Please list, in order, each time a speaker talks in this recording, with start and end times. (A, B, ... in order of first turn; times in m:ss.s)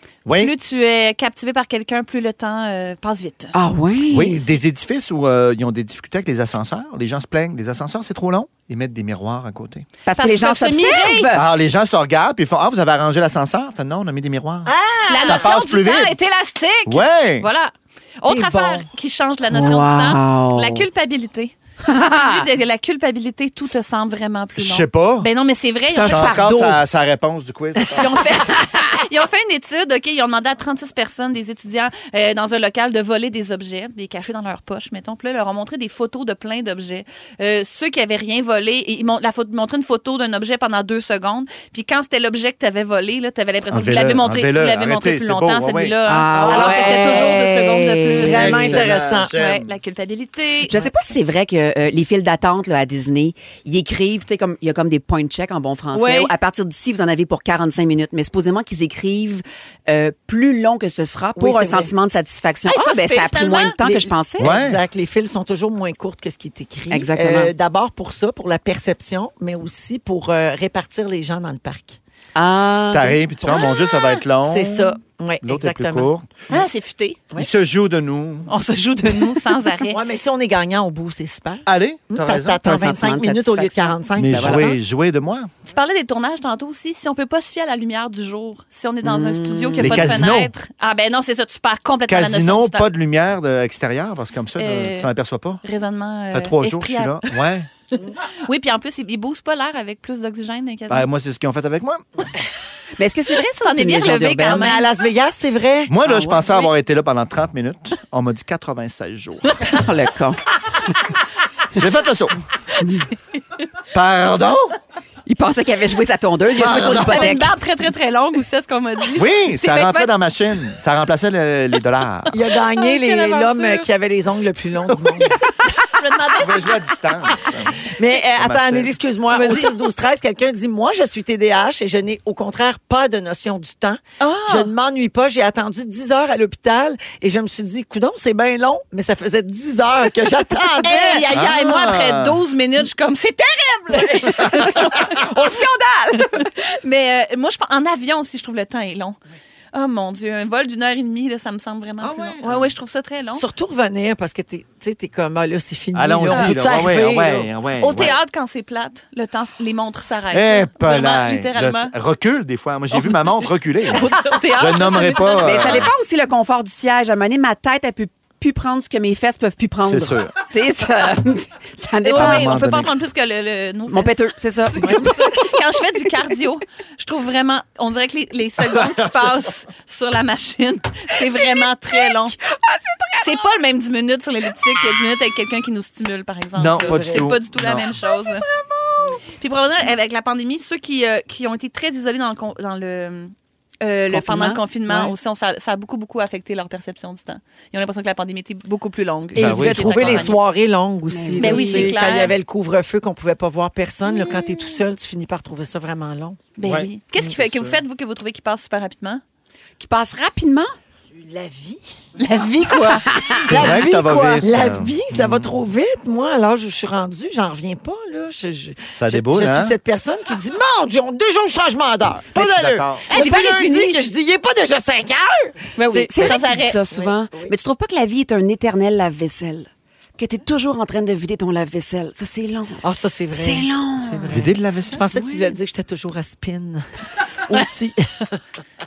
0:00.3-0:00.5 A
0:00.4-0:03.6 B
0:03.5-0:04.5 C
0:04.1-0:09.9 A
0:10.1-0:11.4 C
0:10.2-0:11.3 B
0:11.3-0:16.2 A
0:14.7-0:15.5 D
0:15.1-0:26.4 B
0:16.9-0:17.5 A
0:18.3-0:18.9 D
0:19.5-0:20.9 C
0:21.9-0:22.4 C
0:24.6-0:25.3 A
0:25.9-0:26.8 C
0:26.0-0:28.2 A
0:27.9-0:50.7 B
0:43.7-0:46.0 A
0:46.1-0:48.8 C
0:46.3-0:47.4 D
0:48.2-0:49.3 D
0:48.2-0:49.7 A
0:50.7-1:04.5 C
0:55.9-0:56.3 B
1:01.4-1:01.9 D
1:02.7-1:03.8 B
1:03.9-1:12.0 D
1:04.4-1:04.8 A
1:06.9-1:07.5 C
1:12.4-1:13.2 C
1:12.9-1:14.9 A
1:14.4-1:16.1 D
1:15.4-1:16.3 A
1:16.5-1:17.2 B
1:17.4-1:18.5 A
1:18.5-1:20.0 B
1:19.9-1:24.8 D
1:21.7-1:22.6 A
1:22.6-1:24.6 C
1:24.2-1:25.5 A
1:25.7-1:32.9 B
1:29.0-1:30.2 C
1:29.8-1:30.5 A
1:32.1-1:35.6 A
1:34.6-1:35.1 B
1:35.6-1:37.4 B
1:36.3-1:37.7 A
1:38.4-1:41.1 B
1:40.9-1:42.0 A
1:43.0-1:44.8 C
1:43.6-1:44.9 B
1:44.5-1:46.0 D
1:45.9-1:49.7 A
1:46.0-1:46.4 C
1:49.7-1:50.4 C
1:51.7-1:52.4 A
1:53.9-1:54.8 A
1:55.3-1:57.5 C
1:56.6-1:57.4 A
1:56.6-2:00.1 B
1:59.1-2:02.4 A
2:02.3-2:05.4 D
2:02.5-2:03.9 B
2:05.8-2:06.9 B
2:06.3-2:09.0 A
2:07.8-2:21.2 D
2:09.3-2:09.9 B
2:14.2-2:14.7 B
2:20.8-2:29.2 B
2:21.3-2:22.4 A
2:23.9-2:25.1 D
2:29.7-2:33.5 B
2:32.0-2:32.7 A
2:33.4-2:37.5 D
2:35.9-2:38.2 A
2:37.8-2:41.9 B
2:40.3-2:45.9 A
2:42.9-2:45.9 B
2:45.4-2:52.6 C
2:49.8-2:50.3 A
2:52.0-3:02.4 B
2:52.1-2:52.9 A
2:53.9-2:55.2 C
2:58.7-2:59.2 A
3:02.5-3:03.3 C
3:03.2-3:08.5 B
3:06.6-3:07.9 A
3:09.4-3:20.4 B
3:14.1-3:15.1 C
3:19.4-3:26.5 D
3:19.4-3:20.3 A
3:21.1-3:22.2 C
3:21.4-3:22.4 B
3:26.6-3:29.2 B
3:26.6-3:27.8 A
3:29.8-3:30.7 C
3:31.1-3:32.0 D
3:32.2-3:33.1 B
3:33.0-3:34.0 C
3:33.4-3:35.5 A
3:33.4-3:47.6 D
3:38.9-3:39.8 A
3:42.3-3:43.1 A
3:43.1-3:44.0 B
3:45.8-3:46.8 B
3:46.1-3:52.8 C
3:52.8-3:56.9 D
3:53.3-3:54.5 C
3:54.3-3:55.1 A
3:55.1-3:55.6 C
3:57.5-3:58.4 D